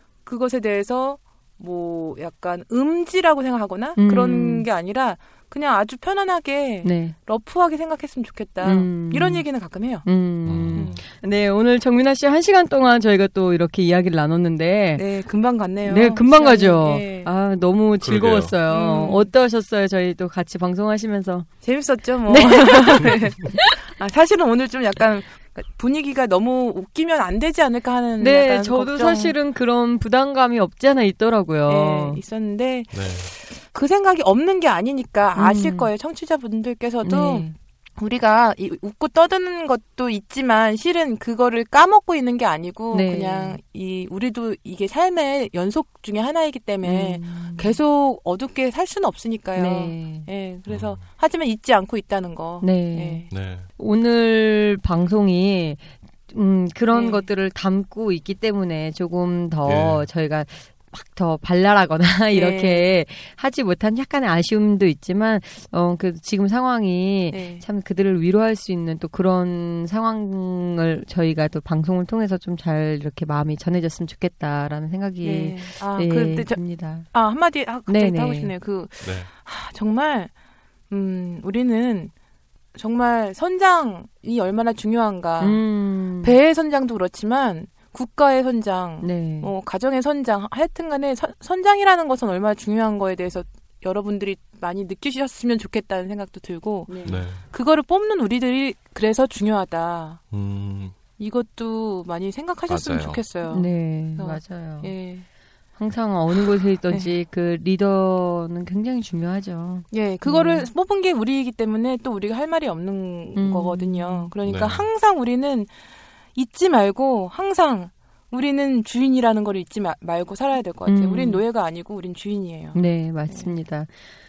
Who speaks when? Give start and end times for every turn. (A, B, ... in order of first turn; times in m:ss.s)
0:00.2-0:10.1 A
0:04.0-0:04.7 B
0:06.8-0:07.2 B
0:08.6-0:09.5 B
0:10.0-0:15.0 B
0:10.5-0:11.0 C
0:15.0-0:17.3 A
0:15.8-0:21.5 B
0:18.0-0:18.5 C
0:18.7-0:19.3 A
0:21.6-0:29.4 A
0:22.3-0:23.7 B
0:28.2-0:32.2 B
0:31.7-0:53.3 A
0:32.9-0:33.3 C
0:35.4-0:35.9 B
0:37.0-0:37.5 B
0:42.9-0:43.6 B
0:46.8-0:47.8 B
0:49.6-0:50.3 B
0:50.7-0:51.0 C
0:52.6-1:17.1 B
0:53.3-0:53.7 C
0:56.9-0:57.2 A
0:59.6-1:00.1 C
1:02.3-1:02.9 A
1:07.3-1:07.6 A
1:15.2-1:20.3 A
1:17.9-1:18.5 B
1:19.0-1:19.3 C
1:20.9-1:22.1 A
1:22.8-1:40.2 A
1:25.4-1:26.4 B
1:29.0-1:29.5 B
1:36.9-1:37.2 B
1:37.1-1:37.4 C
1:40.3-1:41.0 C
1:41.2-1:45.2 A
1:42.7-1:43.2 C
1:43.5-1:44.9 B
1:45.8-1:50.7 B
1:49.9-1:55.7 A
1:53.4-1:54.3 B
1:54.5-1:54.9 C
1:56.4-2:03.5 A
2:00.9-2:01.4 B
2:02.7-2:03.9 B